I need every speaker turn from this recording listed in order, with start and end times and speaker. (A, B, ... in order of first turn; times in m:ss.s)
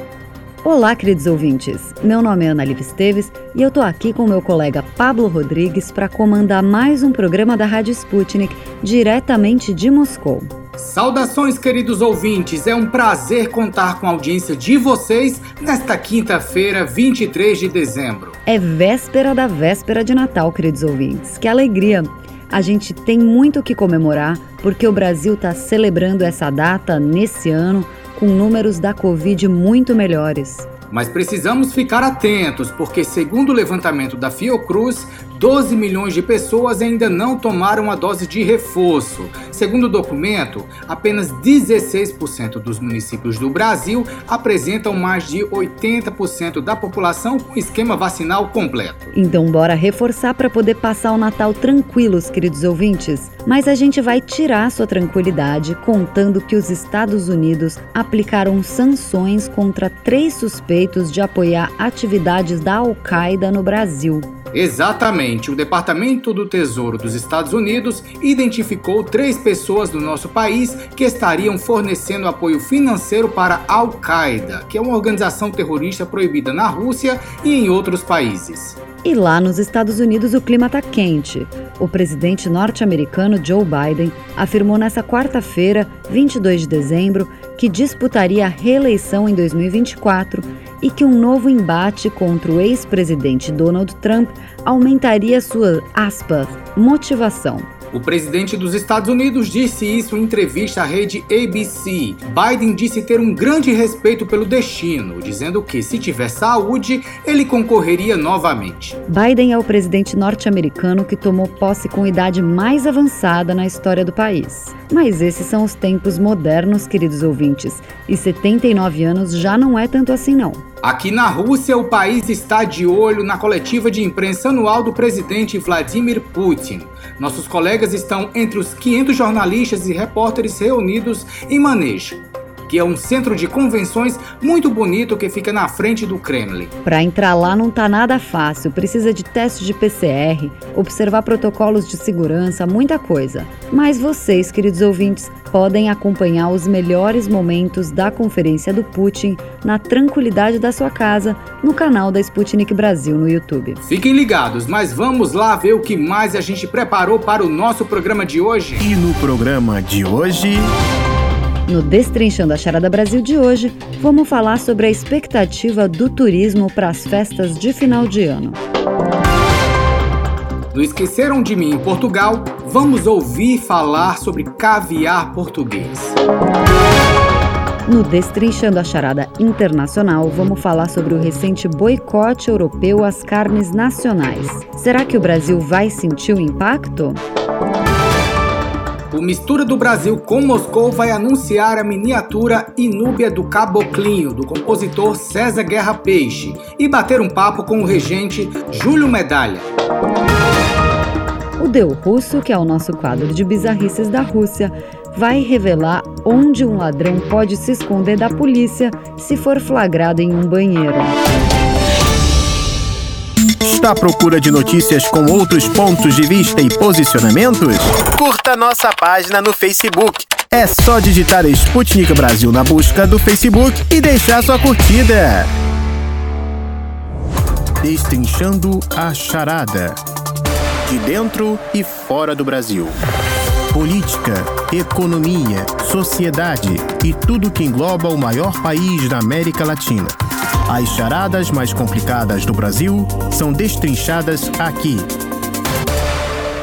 0:00.6-0:10.5 A
0:10.8-0:18.4 B
0:18.5-0:30.7 A
0:30.9-0:49.1 B
0:49.1-1:04.3 A
1:04.5-1:18.8 B
1:19.0-1:37.7 A
1:37.9-1:49.0 B
1:49.1-2:00.6 A
2:00.8-2:16.7 B
2:16.8-2:33.8 A
2:33.8-2:38.8 B
2:38.8-2:40.7 C
2:41.7-2:48.6 A
2:50.7-2:56.2 B
2:57.9-3:07.2 A
3:09.1-3:19.6 B
3:21.6-3:31.1 A
3:33.6-3:45.5 C
3:47.8-3:50.0 C
3:50.8-3:52.9 C
3:53.7-4:05.1 C